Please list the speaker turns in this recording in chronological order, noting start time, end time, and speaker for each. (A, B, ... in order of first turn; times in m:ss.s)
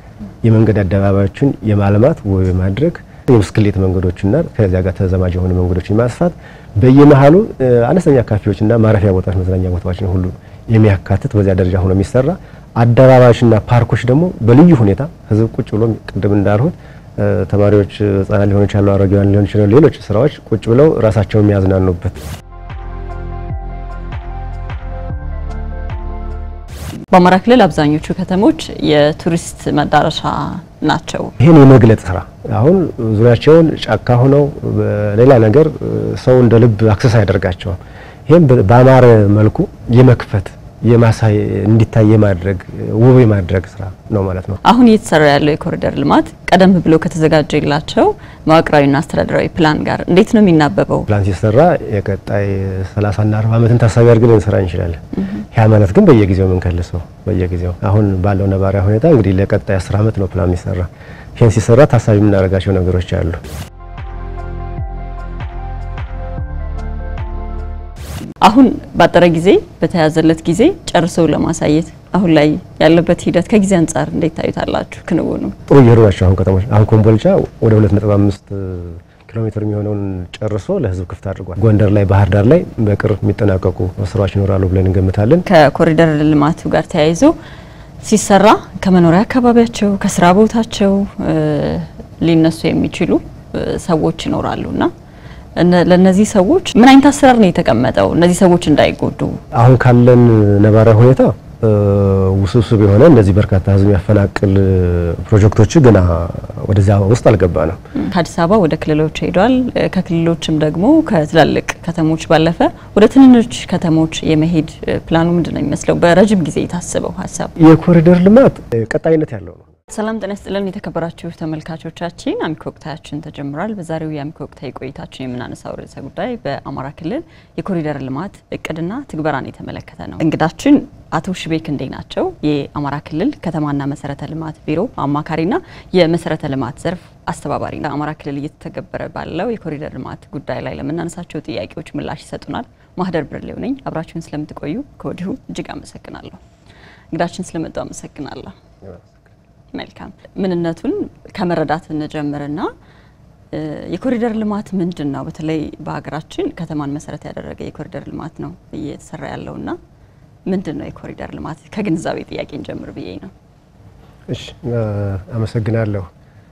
0:00.4-0:22.2 A
0:27.1-0:31.4 B
0:31.4-0:44.6 A
0:44.6-0:51.1 B
0:51.1-1:03.4 A
1:08.4-1:15.6 B
1:15.7-1:25.4 A
1:25.4-1:27.3 B
1:28.0-1:34.9 B
1:35.6-1:39.4 B
1:39.5-1:47.8 A
1:48.0-1:57.5 B
1:57.6-1:59.7 A
1:59.9-2:26.4 B
2:27.1-2:28.6 B
2:28.8-2:29.3 A
2:29.7-2:32.7 B
2:33.5-2:39.8 B
2:40.4-2:43.3 B
2:44.3-2:46.1 A